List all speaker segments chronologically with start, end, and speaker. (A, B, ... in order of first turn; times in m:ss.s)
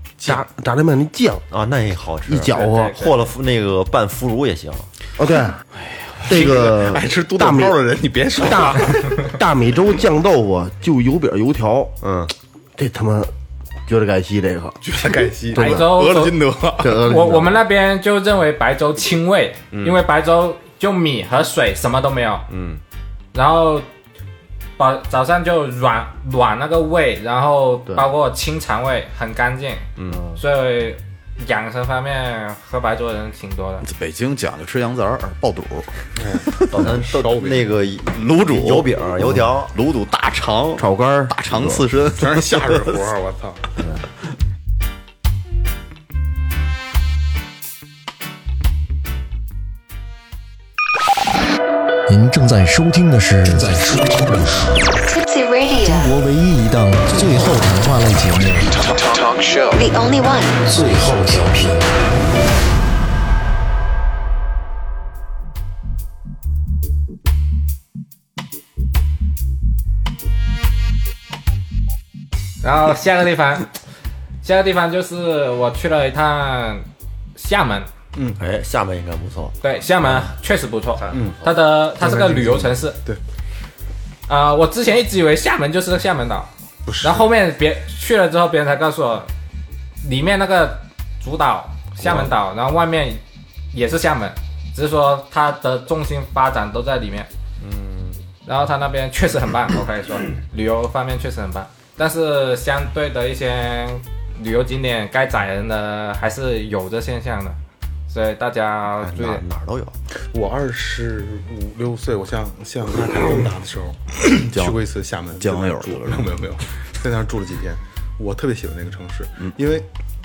0:00.2-0:01.4 A
0:01.5-0:04.9 B
0:02.3-0:03.0 A
0:02.6-0:02.9 C
0:05.2-0:05.6 A
0:05.8-0:06.5 D
0:06.3-0:07.8 A
0:06.3-0:09.4 E
0:08.4-0:12.0 A
0:12.0-0:12.3 B
0:12.8-0:13.3 A
0:13.9-0:16.0 A
0:14.8-0:17.0 E
0:15.5-0:22.5 C
0:16.8-0:17.6 A
0:22.5-0:22.8 B
0:23.3-0:23.9 C
0:24.8-0:33.9 C
0:30.0-0:30.4 B
0:33.8-0:36.8 D
0:36.2-0:37.7 E
0:36.7-0:39.7 B
0:38.1-0:42.8 D
0:40.8-0:41.8 A
0:42.2-0:43.8 E
0:52.1-0:54.9 F
0:55.0-0:56.2 G
0:55.8-0:58.9 F
0:59.5-1:00.6 G
1:00.6-1:01.9 F
1:12.6-1:13.7 C
1:14.4-1:17.9 C
1:18.4-1:19.6 B
1:19.6-1:23.0 C
1:21.1-1:21.5 E
1:22.0-1:23.2 E
1:24.3-1:26.5 C
1:26.9-1:27.3 E
1:27.0-1:29.3 C
1:30.0-1:33.2 C
1:33.7-1:37.3 C
1:37.6-1:38.2 B
1:38.5-1:47.6 C
1:48.1-1:49.4 C
1:49.0-1:50.0 B
1:50.3-1:59.9 E
1:54.5-1:54.8 D
1:55.4-1:56.4 D